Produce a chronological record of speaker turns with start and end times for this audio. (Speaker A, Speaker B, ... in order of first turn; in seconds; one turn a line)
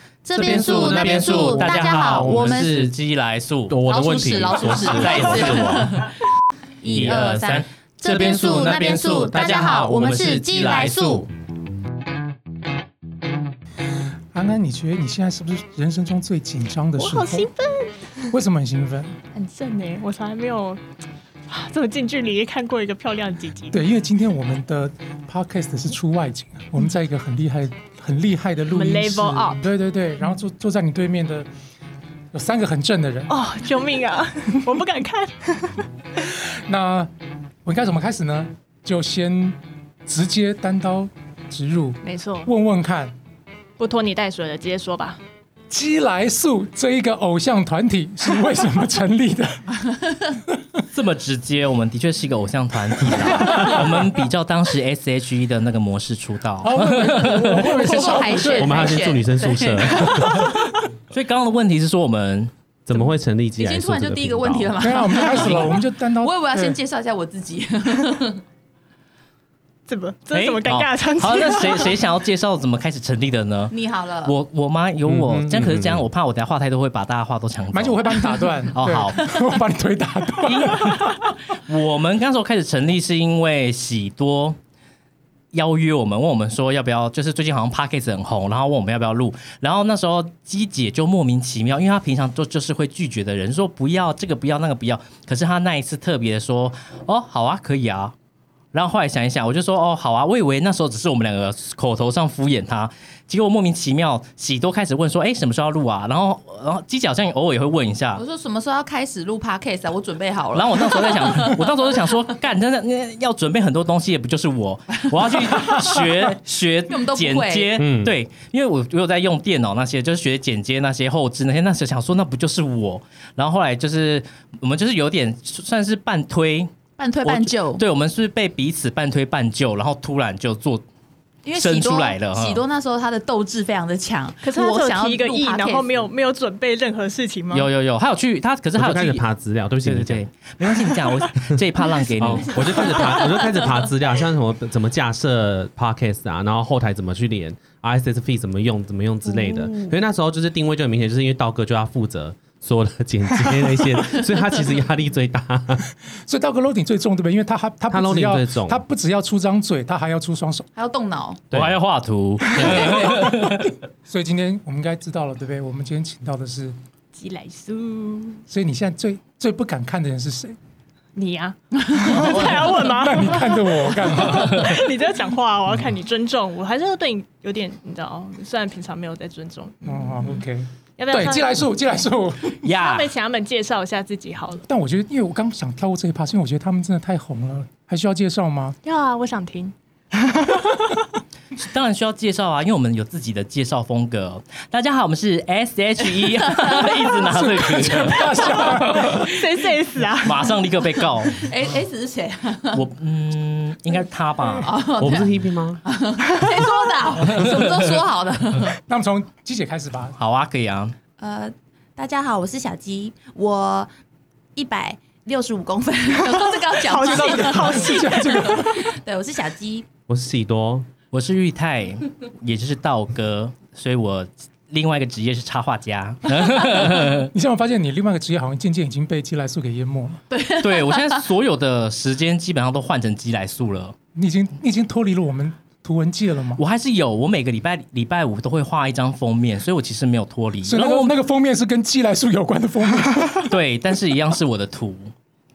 Speaker A: 0.2-2.7
Speaker B: 0.3-2.9
Speaker C: 0.4-3.8
Speaker B: 3.7-6.1
Speaker A: 3.9-6.1
Speaker C: 4.8-6.0
Speaker A: 6.8-11.3
Speaker C: 6.9-11.3
Speaker B: 6.9-7.6
Speaker D: 14.3-17.5
Speaker E: 17.0-18.4
Speaker D: 18.3-19.2
Speaker E: 19.3-20.8
Speaker E: 21.5-23.8
Speaker D: 23.7-31.5
Speaker E: 28.7-29.6
Speaker D: 32.3-33.3
Speaker E: 33.3-35.9
Speaker D: 36.2-37.1
Speaker D: 37.6-43.1
Speaker E: 42.0-42.5
Speaker E: 43.8-45.2
Speaker D: 45.7-49.8
Speaker C: 50.9-57.9
Speaker D: 56.6-59.0
Speaker A: 57.5-60.5
Speaker B: 58.5-60.5
Speaker C: 61.1-62.5
Speaker B: 62.9-65.0
Speaker A: 63.6-68.4
Speaker D: 64.8-66.8
Speaker E: 69.9-72.0
Speaker C: 70.3-73.7
Speaker A: 73.7-74.3
Speaker C: 74.2-79.2
Speaker B: 75.1-76.1
Speaker D: 77.7-81.2
Speaker C: 80.4-81.2
Speaker C: 81.7-84.6
Speaker C: 85.5-98.1
Speaker C: 98.7-108.2
Speaker A: 108.2-111.6
Speaker C: 110.5-126.7
Speaker A: 115.7-116.1
Speaker A: 116.9-117.8
Speaker B: 117.8-118.1
Speaker A: 127.0-127.8
Speaker C: 127.2-130.8
Speaker A: 131.4-136.0
Speaker C: 131.6-132.6
Speaker E: 134.4-137.7
Speaker C: 137.5-139.2
Speaker B: 138.8-140.2
Speaker C: 139.8-143.2
Speaker B: 142.2-155.8
Speaker A: 142.5-143.6
Speaker E: 149.5-149.7
Speaker D: 156.3-160.7
Speaker B: 157.9-158.8
Speaker A: 160.8-161.4
Speaker B: 161.5-161.8
Speaker C: 161.5-163.7
Speaker A: 162.5-163.2
Speaker D: 162.6-166.8
Speaker E: 167.1-168.4
Speaker D: 168.5-170.6
Speaker E: 171.2-180.4
Speaker D: 171.9-174.9
Speaker C: 172.2-172.5
Speaker D: 179.8-182.7
Speaker E: 181.0-181.7
Speaker C: 182.6-183.1
Speaker E: 182.7-184.7
Speaker D: 184.7-188.8
Speaker E: 188.8-191.0
Speaker C: 191.6-199.2
Speaker A: 196.1-197.4
Speaker D: 197.4-199.4
Speaker E: 198.8-200.6
Speaker C: 200.2-201.4
Speaker A: 201.2-202.8
Speaker C: 202.7-204.7
Speaker A: 204.7-205.3
Speaker B: 205.0-205.8
Speaker A: 205.8-208.8
Speaker C: 207.2-207.6
Speaker D: 208.8-210.2
Speaker C: 210.2-210.9
Speaker A: 211.2-213.9
Speaker A: 214.6-219.9
Speaker E: 216.3-218.9
Speaker D: 217.0-218.9
Speaker B: 220.1-220.9
Speaker C: 221.1-227.3
Speaker D: 226.9-230.2
Speaker A: 230.3-231.2
Speaker C: 230.6-233.9
Speaker D: 234.2-236.6
Speaker C: 236.6-241.2
Speaker D: 240.7-243.5
Speaker C: 243.4-245.1